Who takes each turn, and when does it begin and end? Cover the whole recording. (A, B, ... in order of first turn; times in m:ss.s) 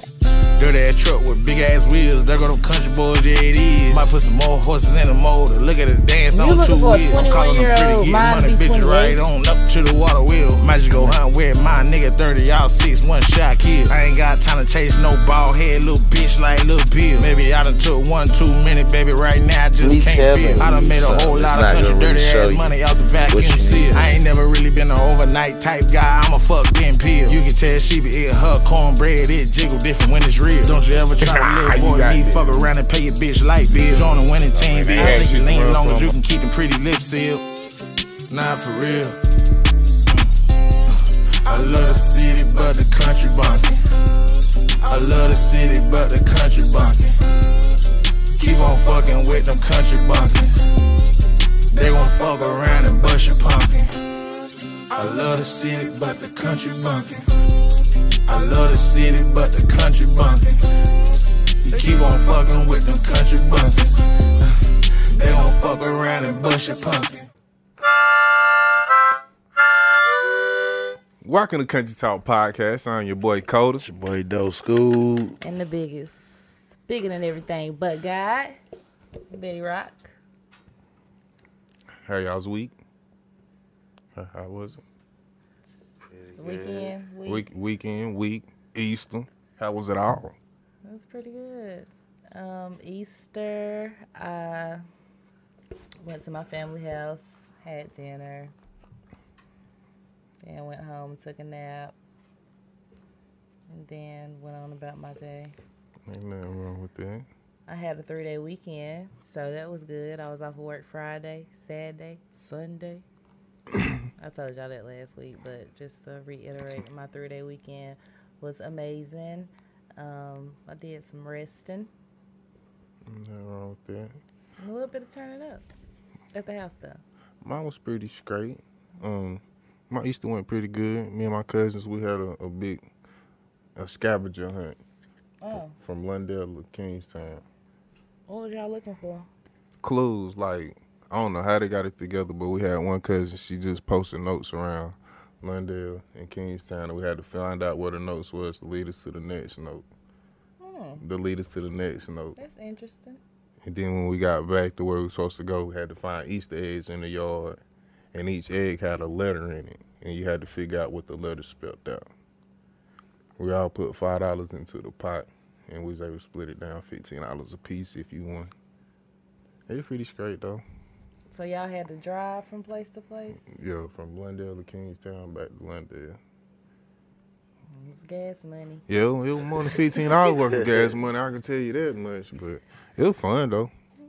0:00.6-0:37.4 A
0:06.3-0:09.2 B
0:19.8-0:22.7 C
0:23.3-0:24.2 C
0:31.2-0:32.7 D
0:33.7-0:36.2 D
0:35.0-0:35.3 B
0:38.3-0:39.2 A
0:40.9-0:43.8 A
0:44.8-0:47.2 A
0:48.4-0:50.8 A
0:51.7-0:54.0 A
0:54.9-0:57.3 A
0:58.3-1:00.8 A
1:01.6-1:07.3 A
1:11.2-1:13.8 D
1:13.8-1:15.4 C
1:15.4-1:18.6 B
1:19.3-1:20.1 B
1:22.0-1:22.7 D
1:24.1-1:24.8 D
1:26.1-1:26.9 C
1:26.4-1:27.5 B
1:27.2-1:30.4 D
1:30.8-1:34.8 B
1:36.0-1:38.5 B
1:40.4-1:41.9 B
1:43.7-1:45.5 B
1:46.0-1:47.3 D
1:47.7-1:53.0 B
1:54.2-2:01.9 B
2:03.0-2:04.2 D
2:04.6-2:05.6 B
2:06.3-2:07.0 B
2:07.4-2:12.8 D
2:13.8-2:14.8 D
2:15.4-2:15.8 B
2:15.5-2:17.4 D
2:18.3-2:19.3 B
2:19.8-2:29.8 D
2:30.6-2:31.0 B
2:31.0-2:32.4 D
2:32.4-2:33.2 B
2:33.6-2:37.6 D
2:38.1-2:42.0 D
2:43.4-2:48.5 D
2:49.7-2:50.6 D
2:51.3-2:53.4 B
2:53.4-2:56.2 D
2:57.7-2:58.8 B
2:58.9-3:03.7 D